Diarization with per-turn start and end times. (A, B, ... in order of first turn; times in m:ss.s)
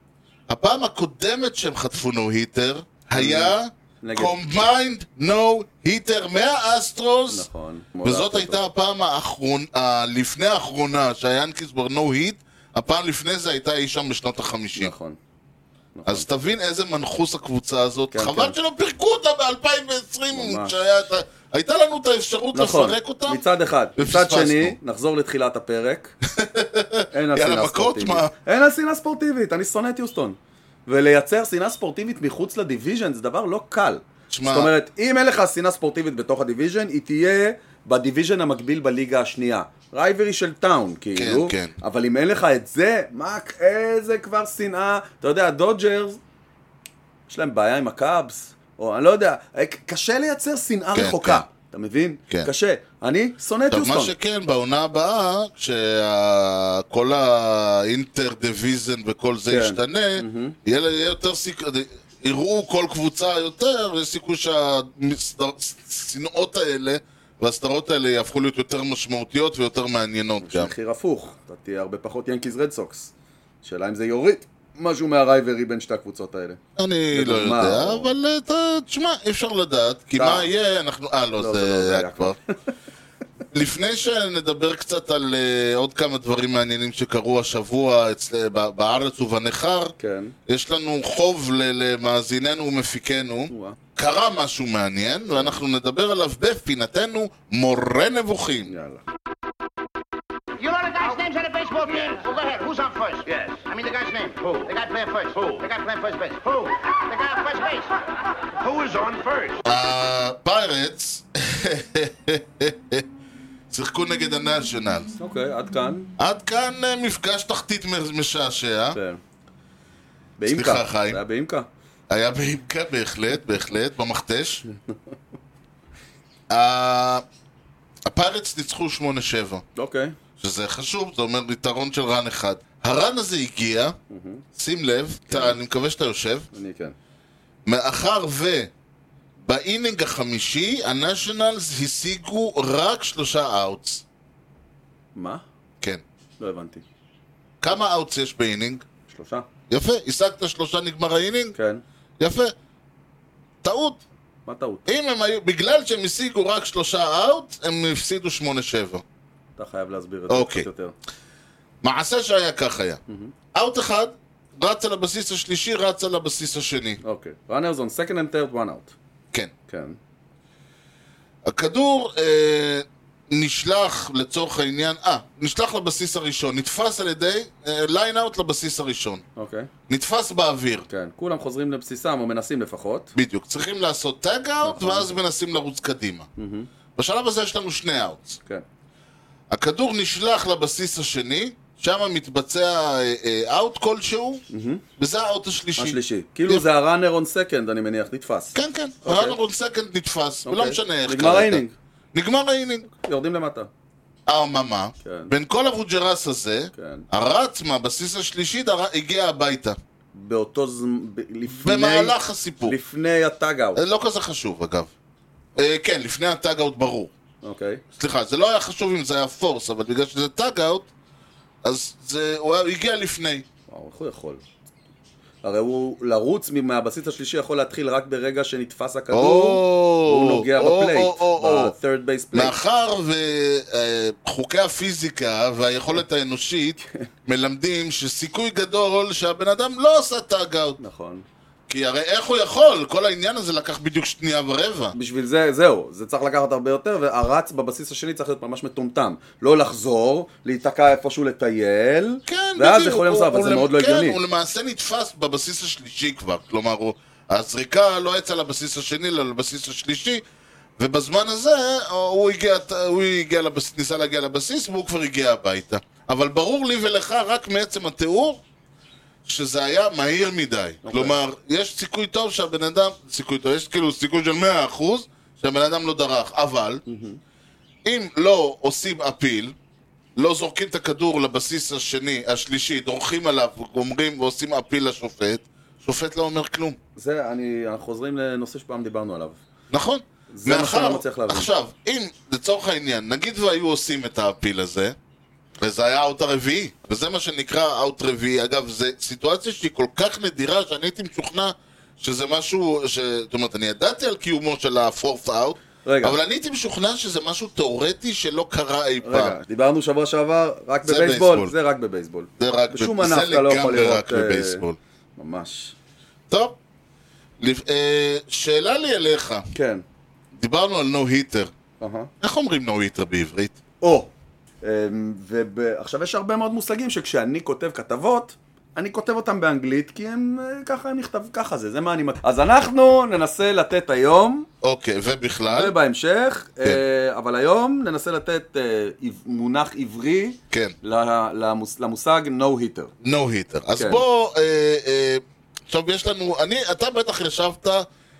0:00.5-0:07.5 A
0:03.1-0:04.4 B
0:07.3-0:08.6 B
0:08.0-0:14.9 A
0:14.8-0:15.2 B
0:16.0-0:16.3 B
0:16.1-0:23.4 A
0:18.1-0:18.6 B
0:20.3-0:20.8 B
0:22.5-0:26.2 B
0:24.0-0:24.8 A
0:26.2-0:28.3 A
0:27.1-0:46.2 B
0:34.3-0:34.7 A
0:41.2-0:41.7 A
0:47.3-0:54.1 B
0:50.9-0:51.4 A
0:53.7-1:10.7 A
0:59.5-1:00.6 B
1:10.4-1:13.1 B
1:13.6-1:16.6 B
1:16.8-1:22.4 A
1:17.1-1:18.1 B
1:20.2-1:20.5 B
1:21.4-1:22.5 B
1:23.5-1:29.9 A
1:30.0-1:30.4 B
1:30.5-1:38.7 A
1:33.5-1:33.8 B
1:35.3-1:35.6 B
1:38.7-1:39.0 B
1:40.6-1:48.0 C
1:48.6-1:49.6 C
1:49.6-1:53.0 A
1:53.7-1:55.1 A
1:55.2-1:56.1 B
1:56.2-1:59.0 A
1:58.9-1:59.2 B
2:00.4-2:01.7 B
2:00.5-2:01.2 A
2:02.1-2:04.6 A
2:06.5-2:07.2 A
2:08.1-2:09.6 A
2:09.8-2:10.2 B
2:10.4-2:14.0 A
2:14.1-2:14.4 B
2:14.6-2:16.5 A
2:15.3-2:15.6 B
2:16.5-2:17.0 B
2:17.7-2:18.7 A
2:19.4-2:24.0 A
2:25.2-2:25.4 B
2:26.4-2:26.8 B
2:27.6-2:28.8 A
2:29.1-2:29.5 B
2:29.7-2:31.6 A
2:31.6-2:31.8 B
2:32.2-2:32.5 A
2:33.6-2:34.0 A
2:34.5-2:34.9 B
2:34.9-2:39.0 A
2:39.6-2:41.0 B
2:40.3-2:40.7 A
2:41.8-2:43.0 A
2:43.1-2:43.3 B
2:43.5-2:47.0 A
2:47.0-2:49.0 B
2:49.7-2:50.0 B
2:51.4-2:59.2 A
2:59.4-2:59.7 B
2:59.9-3:00.9 A
3:00.9-3:03.1 B
3:03.2-3:06.3 A
3:04.6-3:05.1 B
3:06.4-3:06.7 B
3:07.0-3:08.4 A
3:09.5-3:14.4 A
3:14.5-3:14.8 B
3:15.0-3:16.6 A
3:15.8-3:19.4 B
3:18.6-3:21.6 A
3:20.4-3:21.7 B
3:22.1-3:22.9 A
3:23.0-3:23.7 B
3:24.3-3:29.8 A
3:25.0-3:25.3 B
3:26.7-3:27.1 B
3:30.1-3:33.8 B
3:31.6-3:32.8 A
3:33.8-3:34.9 A
3:35.6-3:37.1 A
3:37.4-3:37.8 B
3:38.0-3:40.9 A
3:41.6-3:43.5 A
3:43.7-3:44.4 B
3:45.4-3:52.6 B
3:49.1-3:51.8 A
3:52.3-4:00.8 A
4:00.8-4:01.2 B
4:01.7-4:05.0 A
4:04.9-4:14.2 B
4:12.3-4:20.2 A
4:20.8-4:28.4 A
4:29.2-4:36.8 A
4:30.8-4:31.2 B
4:36.9-4:37.2 B
4:37.8-4:39.6 A
4:40.2-4:46.8 A
4:47.0-4:49.4 B
4:49.7-4:55.0 A
4:50.3-4:51.5 B
4:55.6-5:09.4 A
5:05.8-5:06.2 B
5:09.0-5:14.6 B
5:10.8-5:11.5 A
5:12.4-5:14.8 A
5:15.2-5:15.8 B
5:16.3-5:16.6 A
5:17.4-5:19.4 A
5:19.5-5:19.8 B
5:20.4-5:21.5 A
5:21.8-5:22.1 B
5:22.2-5:23.6 A
5:23.8-5:24.1 B
5:24.6-5:34.5 B
5:34.6-5:35.8 A
5:35.5-5:42.9 B
5:43.0-5:47.9 A
5:43.8-5:44.0 B